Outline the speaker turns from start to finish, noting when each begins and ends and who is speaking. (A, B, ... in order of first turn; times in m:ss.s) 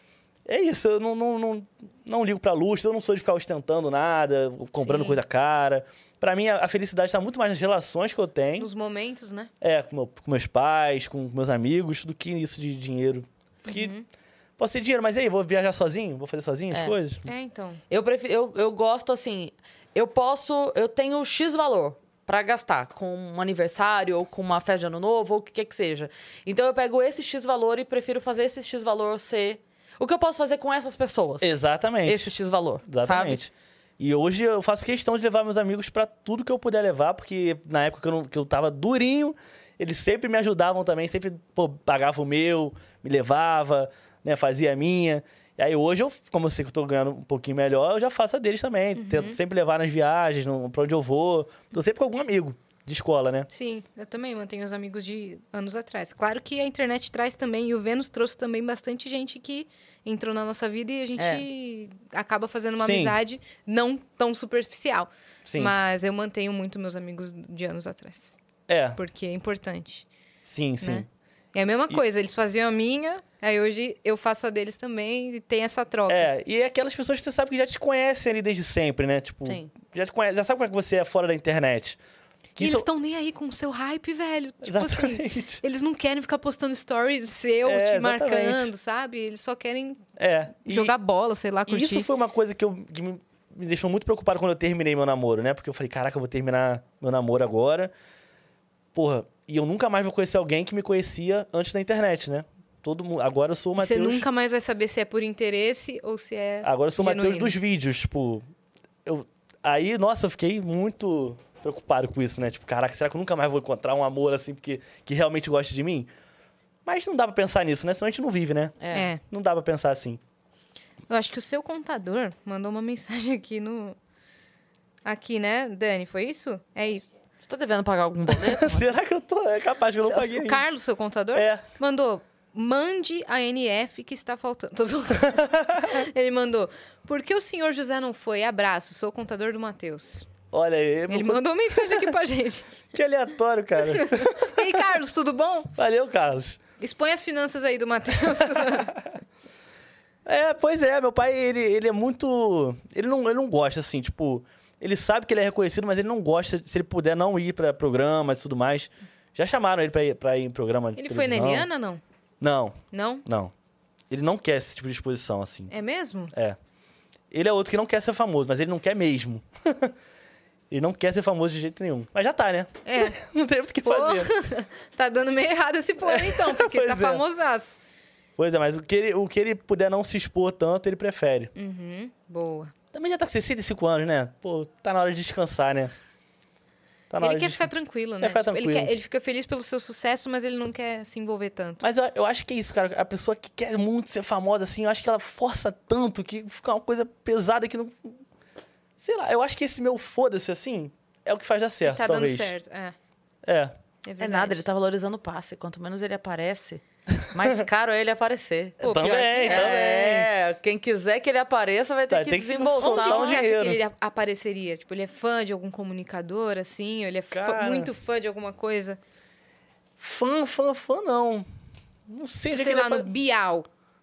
0:00.5-0:08.7 A
0:04.8-0:05.2 B
0:08.6-0:09.5 B
0:09.6-0:13.9 A
0:13.7-0:14.0 B
0:14.6-0:17.3 A
0:17.3-0:17.8 B
0:17.9-0:33.4 C
0:31.4-0:32.3 A
0:32.9-0:53.5 A
0:49.0-0:49.4 B
0:53.5-1:08.4 B
1:01.2-1:01.4 C
1:02.8-1:03.2 A
1:05.4-1:05.7 A
1:08.7-1:09.0 A
1:09.0-1:10.1 B
1:10.4-1:11.0 A
1:10.8-1:16.3 B
1:16.1-1:22.0 A
1:22.6-1:22.9 A
1:22.6-1:30.0 B
1:24.6-1:25.6 A
1:27.6-1:28.7 A
1:30.2-1:30.9 A
1:30.6-1:32.1 B
1:31.7-1:37.9 A
1:39.0-1:44.3 A
1:43.8-1:47.6 B
1:46.6-1:48.4 A
1:49.0-1:56.1 A
1:56.8-2:00.2 A
1:58.8-1:59.1 C
1:58.9-1:59.2 B
2:01.1-2:04.0 B
2:05.0-2:07.1 B
2:07.4-2:08.9 C
2:08.3-2:10.6 A
2:10.0-2:20.3 B
2:11.4-2:11.6 A
2:15.2-2:16.0 A
2:20.5-2:22.2 A
2:21.1-2:22.8 B
2:22.9-2:25.0 A
2:23.8-2:25.7 B
2:25.8-2:26.6 A
2:26.8-2:28.9 B
2:28.3-2:29.1 A
2:30.2-2:41.7 A
2:41.0-2:42.0 B
2:42.4-2:43.5 A
2:42.9-2:43.2 B
2:44.1-2:45.7 A
2:45.7-2:46.3 B
2:46.3-2:46.6 A
2:47.3-2:49.9 A
2:50.7-2:54.3 A
2:52.8-2:53.2 B
2:53.8-2:57.8 B
2:56.0-2:57.2 A
2:58.4-3:01.5 A
3:01.6-3:02.7 B
3:02.9-3:05.9 A
3:07.1-3:08.9 A
3:07.2-3:11.8 B
3:11.8-3:18.2 A
3:19.0-3:22.5 A
3:21.8-3:22.9 B
3:23.4-3:23.7 A
3:24.0-3:24.6 B
3:24.2-3:28.8 C
3:27.2-3:27.6 A
3:28.8-3:29.7 B
3:28.8-3:30.3 A
3:29.4-3:33.4 C
3:32.1-3:33.8 A
3:32.8-3:39.0 B
3:37.3-3:37.9 A
3:40.0-3:41.5 A
3:42.1-3:43.1 A
3:42.5-3:43.7 B